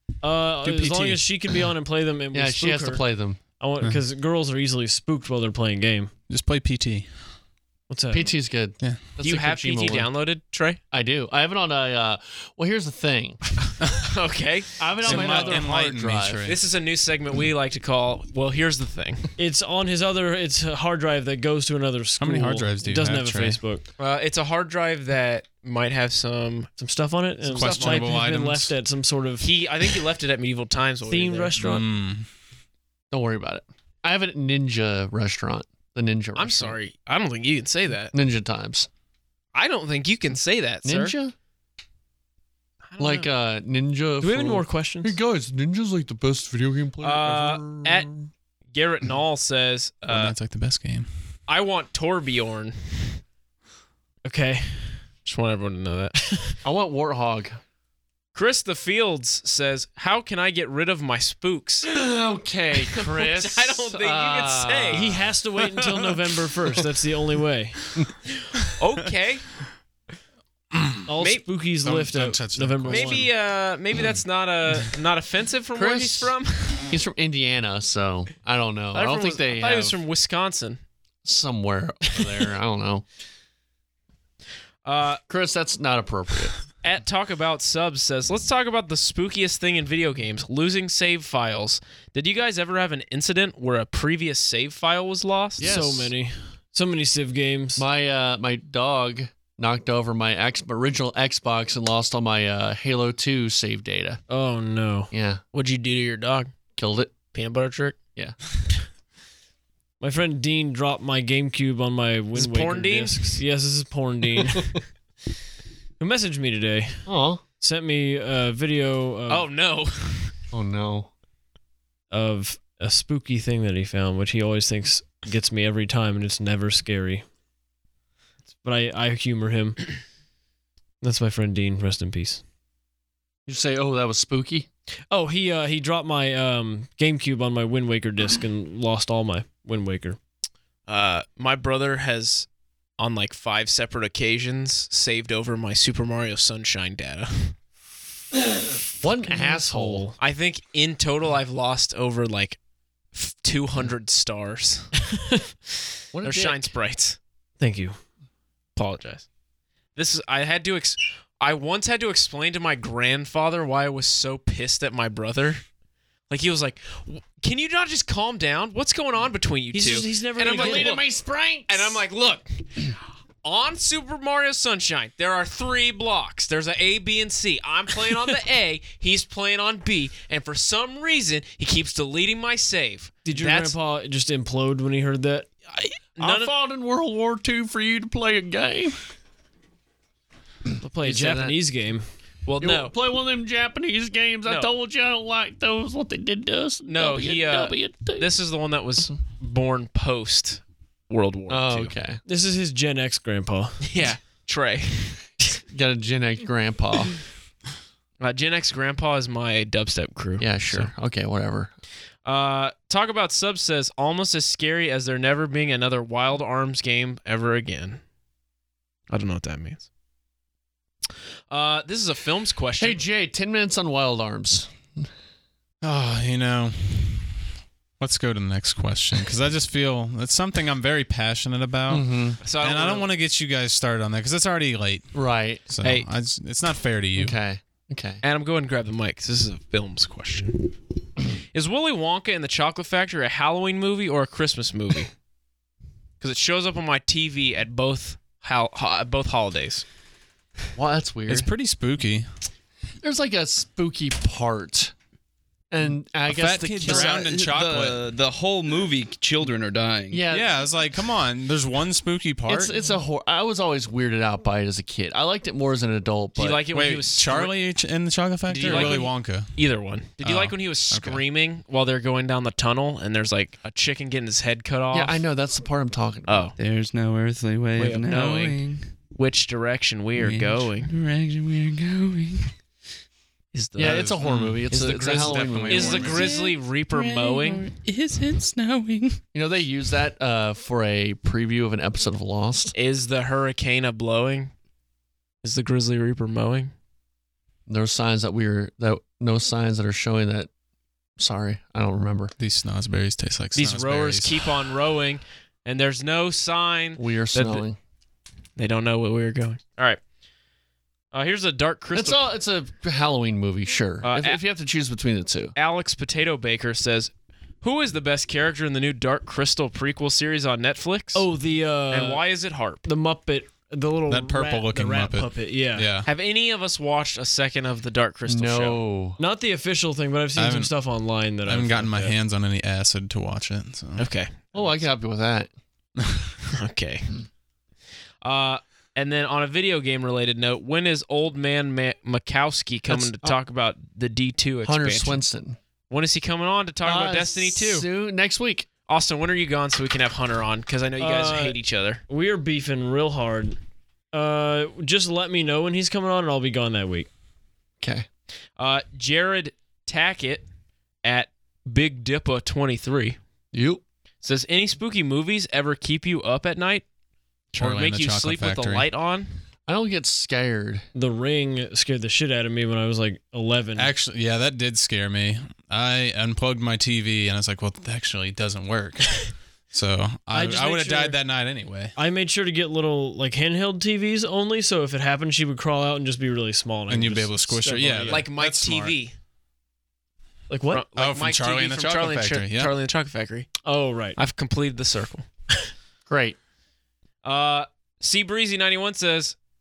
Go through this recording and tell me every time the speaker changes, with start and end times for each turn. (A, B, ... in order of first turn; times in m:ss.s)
0:00.2-0:03.0 A
0:00.6-0:01.2 B
0:02.3-0:03.4 C
0:03.6-0:06.1 A
0:06.3-0:07.1 B
0:07.9-0:08.2 A
0:08.1-0:10.1 C
0:08.8-0:09.0 B
0:09.2-0:10.8 D
0:10.9-0:13.4 C
0:14.0-0:15.7 D
0:14.8-0:16.5 C
0:15.0-0:16.6 B
0:16.4-0:19.3 D
0:19.4-0:23.8 A
0:22.2-0:23.6 B
0:24.0-0:26.7 D
0:26.8-0:29.4 A
0:27.4-0:28.1 D
0:27.5-0:28.7 B
0:29.4-0:31.6 D
0:31.0-0:31.8 A
0:31.6-0:32.2 B
0:33.1-0:36.8 C
0:36.4-0:38.1 D
0:38.1-0:38.9 C
0:39.5-0:41.2 D
0:40.8-0:41.3 C
0:42.8-0:43.3 D
0:43.0-0:48.3 C
0:44.2-0:45.2 A
0:47.0-0:48.1 D
0:48.7-0:50.3 D
0:50.1-0:51.1 B
0:51.5-0:53.2 D
0:54.2-0:55.0 A
0:55.2-0:56.6 D
0:56.6-0:57.6 C
0:58.3-1:01.9 D
1:01.8-1:05.1 C
1:02.9-1:05.2 D
1:04.9-1:07.9 A
1:08.8-1:09.4 D
1:11.1-1:13.3 A
1:11.2-1:11.4 D
1:11.8-1:13.3 B
1:12.9-1:16.9 D
1:15.7-1:16.4 C
1:16.9-1:20.0 C
1:18.9-1:20.8 D
1:21.2-1:23.0 C
1:24.8-1:25.2 D
1:25.3-1:26.5 C
1:26.8-1:35.9 D
1:35.6-1:36.1 C
1:35.6-1:37.8 A
1:37.8-1:44.2 C
1:44.3-1:45.1 A
1:45.1-1:45.4 C
1:45.5-1:46.5 D
1:46.8-1:47.1 C
1:47.3-1:48.0 D
1:50.0-1:54.7 A
1:52.4-1:53.4 D
1:56.0-1:57.1 A
1:57.0-1:57.4 C
1:57.6-1:59.4 A
1:59.3-2:00.3 D
2:00.5-2:01.1 C
2:02.1-2:07.2 A
2:08.6-2:09.8 A
2:11.0-2:12.4 A
2:13.5-2:14.7 C
2:15.1-2:20.2 A
2:20.9-2:22.5 D
2:23.0-2:27.6 D
2:29.0-2:30.0 C
2:29.2-2:30.2 A
2:30.2-2:32.6 D
2:33.1-2:34.9 D
2:36.1-2:36.7 C
2:36.2-2:37.2 D
2:37.6-2:38.0 A
2:38.8-2:39.2 D
2:39.9-2:45.6 D
2:46.3-2:51.0 D
2:49.7-2:51.0 A
2:50.5-2:52.0 C
2:51.7-3:03.8 D
3:03.2-3:05.5 A
3:05.7-3:06.5 D
3:06.2-3:09.0 C
3:10.8-3:12.0 A
3:11.0-3:11.6 C
3:12.4-3:12.9 D
3:12.6-3:18.3 C
3:14.4-3:14.7 D
3:16.8-3:21.9 D
3:21.5-3:22.2 C
3:22.2-3:23.8 A
3:23.8-3:25.2 D
3:25.7-3:27.1 C
3:28.2-3:30.9 D
3:30.4-3:31.7 C
3:32.2-3:38.0 D
3:39.1-3:39.8 D
3:41.5-3:43.0 D
3:42.8-3:45.1 C
3:45.8-3:47.3 B
3:48.0-3:55.1 B
3:51.9-3:52.4 C
3:52.4-3:53.1 D
3:55.1-3:55.6 C
3:55.7-3:57.4 B
3:55.8-3:56.1 D
3:57.2-3:58.2 C
3:58.2-4:00.6 D
4:01.5-4:05.1 D
4:06.2-4:09.8 D
4:10.7-4:11.5 C
4:11.3-4:12.3 B
4:13.0-4:14.9 C
4:15.7-4:17.0 C
4:16.2-4:18.0 B
4:16.9-4:20.2 E
4:20.1-4:20.5 C
4:20.3-4:22.7 B
4:22.5-4:26.6 C
4:26.4-4:27.5 D
4:26.7-4:29.5 B
4:28.5-4:35.2 D
4:28.6-4:29.0 C
4:30.2-4:31.2 B
4:34.9-4:36.5 C
4:36.2-4:36.5 D
4:36.6-4:38.9 E
4:37.8-4:40.9 D
4:40.2-4:42.5 E
4:43.5-4:44.2 D
4:43.8-4:46.2 C
4:43.8-4:46.3 B
4:44.7-4:47.7 D
4:46.0-4:49.2 E
4:49.3-4:52.7 C
4:52.7-4:54.5 D
4:55.4-4:56.7 D
4:57.7-5:00.5 C
5:01.2-5:02.3 C
5:02.4-5:04.5 B
5:03.5-5:07.6 D
5:07.0-5:07.8 C
5:08.6-5:10.0 D
5:11.1-5:12.2 D
5:11.9-5:15.5 C
5:14.0-5:14.4 D
5:15.5-5:21.3 D
5:21.1-5:22.2 A
5:21.9-5:22.8 D
5:22.8-5:25.9 A
5:24.1-5:26.1 B
5:26.0-5:28.8 D
5:28.3-5:29.2 C
5:29.2-5:32.1 A
5:30.4-5:30.7 B
5:31.4-5:34.1 B
5:34.0-5:34.8 D
5:34.5-5:35.5 C
5:36.5-5:37.2 D
5:38.2-5:45.2 D
5:42.9-5:43.4 C
5:44.6-5:45.6 C
5:45.9-5:47.9 D
5:46.8-5:48.7 C
5:48.9-5:52.0 D
5:51.0-5:51.6 A
5:52.1-5:53.6 A
5:54.1-5:57.1 A
5:57.8-5:58.1 C
5:58.6-6:00.4 D
6:01.0-6:03.2 D
6:03.5-6:03.8 C
6:04.2-6:06.8 D
6:07.5-6:09.3 D
6:07.6-6:08.9 B
6:09.7-6:10.9 C
6:10.9-6:13.9 A
6:13.8-6:21.9 B
6:20.3-6:21.2 A
6:22.0-6:28.2 A
6:26.9-6:29.0 B
6:28.1-6:29.1 D
6:30.5-6:30.8 A
6:30.7-6:33.6 D
6:30.9-6:32.7 B
6:33.6-6:34.2 A
6:34.2-6:35.2 D
6:36.1-6:36.4 C
6:37.2-6:39.3 D